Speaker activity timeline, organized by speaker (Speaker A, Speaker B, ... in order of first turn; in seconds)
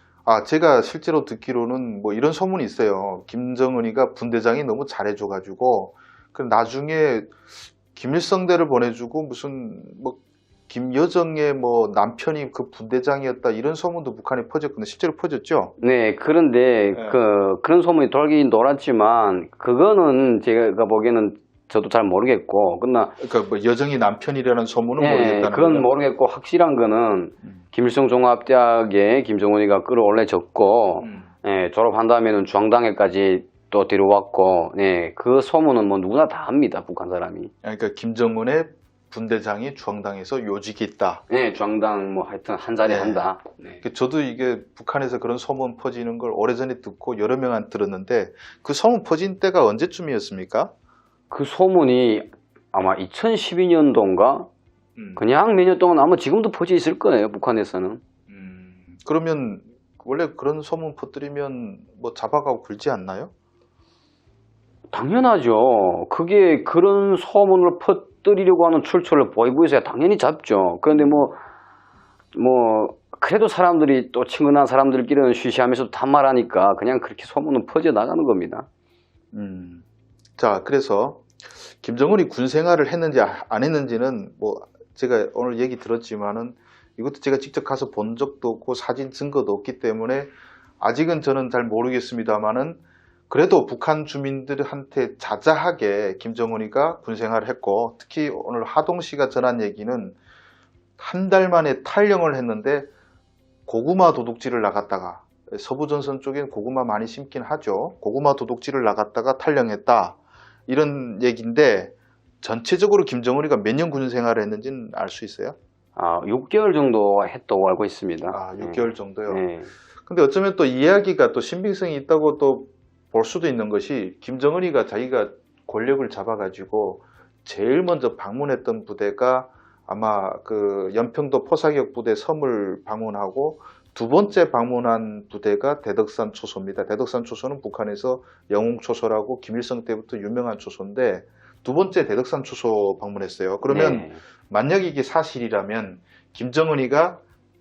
Speaker A: 0.3-15.7, 16.9-17.2, 23.2-25.9, 31.0-31.3, 37.6-41.2, 42.8-43.2, 43.8-50.7, 55.0-55.2, 58.3-63.3, 70.9-71.3, 79.3-79.8, 80.4-100.2, 101.0-102.9, 103.7-115.6, 118.3-119.4, 120.1-147.2
Speaker B: 15.8-23.2, 25.0-37.5, 41.3-43.8, 51.3-54.5, 55.2-58.0, 64.9-71.4, 72.3-78.7, 116.0-119.7, 143.7-144.2